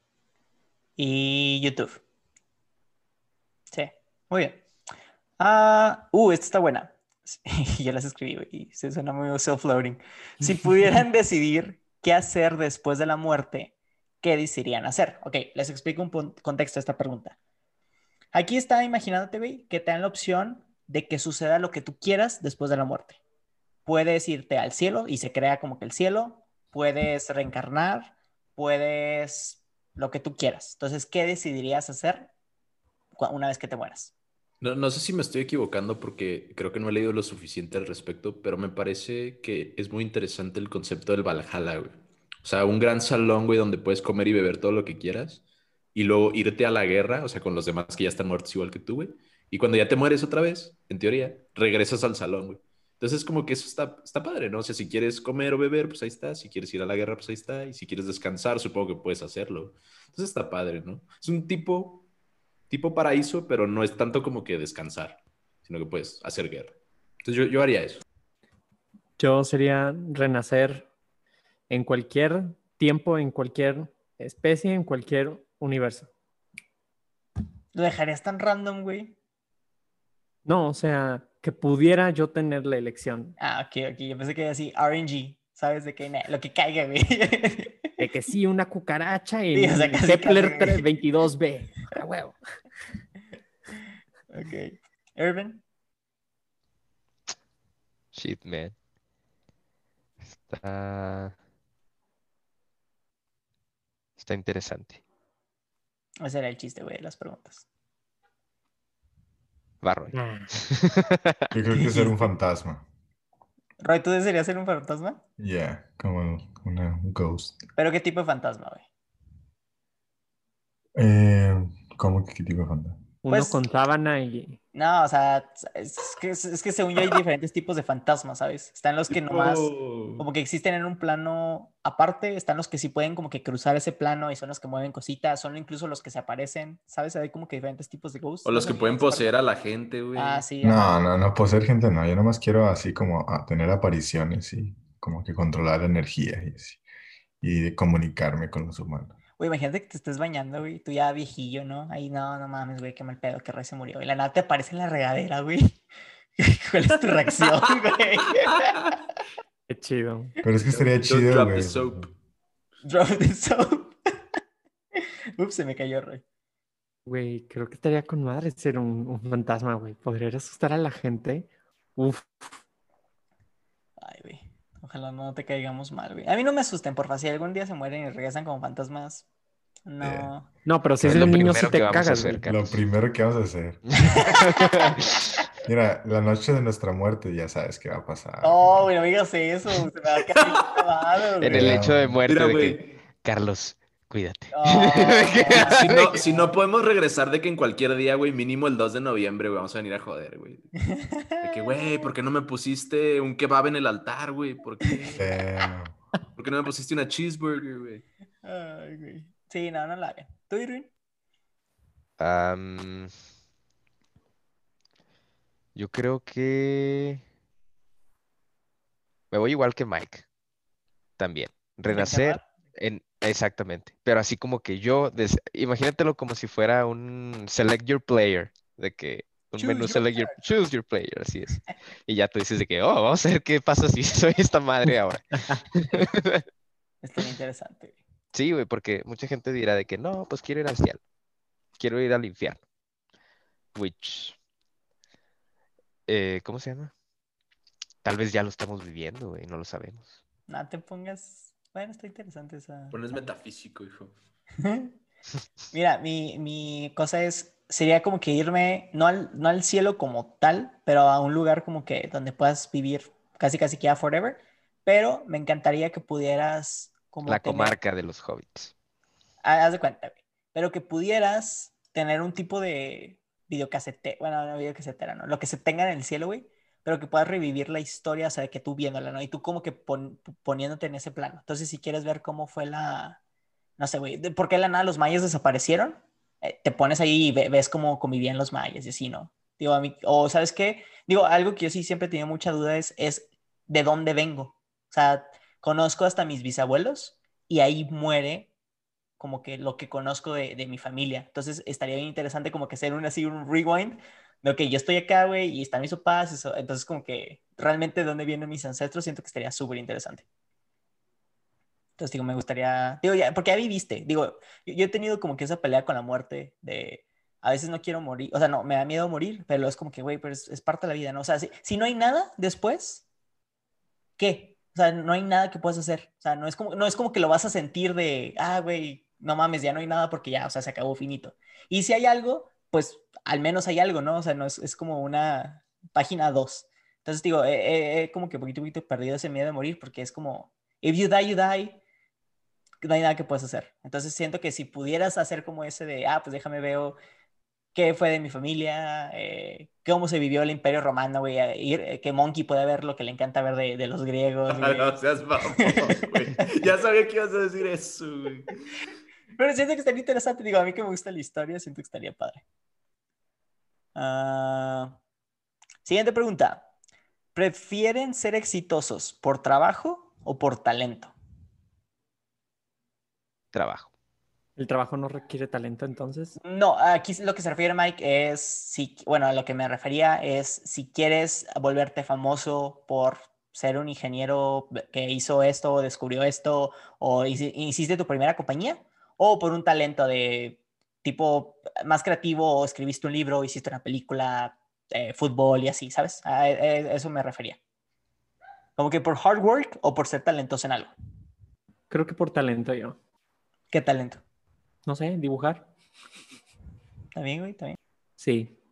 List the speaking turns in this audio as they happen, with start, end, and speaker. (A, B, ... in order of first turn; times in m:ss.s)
0:01.0-0:02.0 A
0:03.7-0:04.6 A
0:05.4-0:17.4 A
0:18.3-0:23.2 A
0:23.8-0:32.3 A
0:33.2-0:34.1 A
0:34.6-0:45.4 B
0:45.9-1:02.1 B
1:02.7-1:08.0 B
1:09.2-1:10.9 C
1:11.7-1:16.1 C
1:17.7-1:19.2 A
1:20.4-1:23.3 C
1:23.4-1:28.0 A
1:28.0-1:32.4 C
1:29.5-1:30.9 A
1:34.3-1:35.6 A
1:38.1-1:38.7 D
1:40.2-1:41.3 D
1:44.2-1:45.0 D
1:46.2-1:47.6 A
1:49.8-1:51.5 D
1:50.1-1:50.5 C
1:51.5-1:52.8 E
1:51.7-1:52.3 A
1:53.8-1:55.2 A
1:55.4-1:57.6 E
1:57.8-1:58.8 A
2:00.9-2:03.0 E
2:03.2-2:04.6 C
2:03.3-2:03.6 A
2:04.7-2:19.3 A
2:09.1-2:10.2 B
2:18.4-2:20.4 B
2:20.1-2:20.9 A
2:20.6-2:26.8 E
2:27.4-2:29.2 E
2:29.4-2:35.8 A
2:36.4-2:38.7 A
2:39.7-2:40.4 C
2:40.4-2:42.1 E
2:40.7-2:42.1 B
2:42.8-2:43.9 A
2:45.4-2:46.2 A
2:47.0-2:52.5 C
2:54.0-2:59.2 A
2:59.8-3:00.5 A
3:00.0-3:00.3 E
3:00.6-3:02.4 C
3:01.0-3:02.8 D
3:01.0-3:01.7 E
3:02.4-3:04.1 E
3:04.1-3:05.2 D
3:04.2-3:05.0 A
3:05.6-3:08.8 E
3:08.4-3:11.8 A
3:11.4-3:16.2 D
3:11.5-3:12.2 E
3:12.2-3:13.0 B
3:14.5-3:16.5 A
3:15.5-3:20.7 B
3:20.9-3:22.1 A
3:21.4-3:25.3 B
3:25.1-3:26.0 E
3:26.4-3:28.0 B
3:28.4-3:30.9 A
3:32.2-3:33.1 D
3:35.7-3:37.2 D
3:39.3-3:40.2 D
3:41.2-3:56.4 D
3:41.9-3:42.4 A
3:49.6-3:50.4 A
3:55.3-3:55.6 C
3:57.0-3:58.0 A
3:58.3-4:01.0 D
4:01.8-4:02.6 D
4:03.7-4:04.4 D
4:06.1-4:06.9 D
4:08.0-4:10.1 D
4:10.5-4:13.2 A
4:12.9-4:14.1 B
4:14.6-4:15.0 A
4:15.7-4:27.8 A
4:27.2-4:28.7 D
4:29.4-4:43.2 A
4:43.8-4:58.5 A
4:59.2-5:10.2 A
5:12.0-5:23.0 A
5:24.2-5:41.8 A
5:42.8-5:47.0 A
5:47.7-5:55.0 A
5:54.5-5:58.5 B
5:55.6-5:56.5 A
5:59.4-6:02.4 A
6:03.9-6:05.0 A
6:05.8-6:06.7 A
6:07.3-6:11.1 A
6:13.5-6:13.9 D
6:14.6-6:16.4 C
6:16.4-6:37.6 A
6:38.8-6:40.9 A
6:41.9-6:43.0 C
6:43.7-6:44.2 A
6:44.8-6:45.7 C
6:47.1-6:47.8 A
6:48.2-6:48.6 C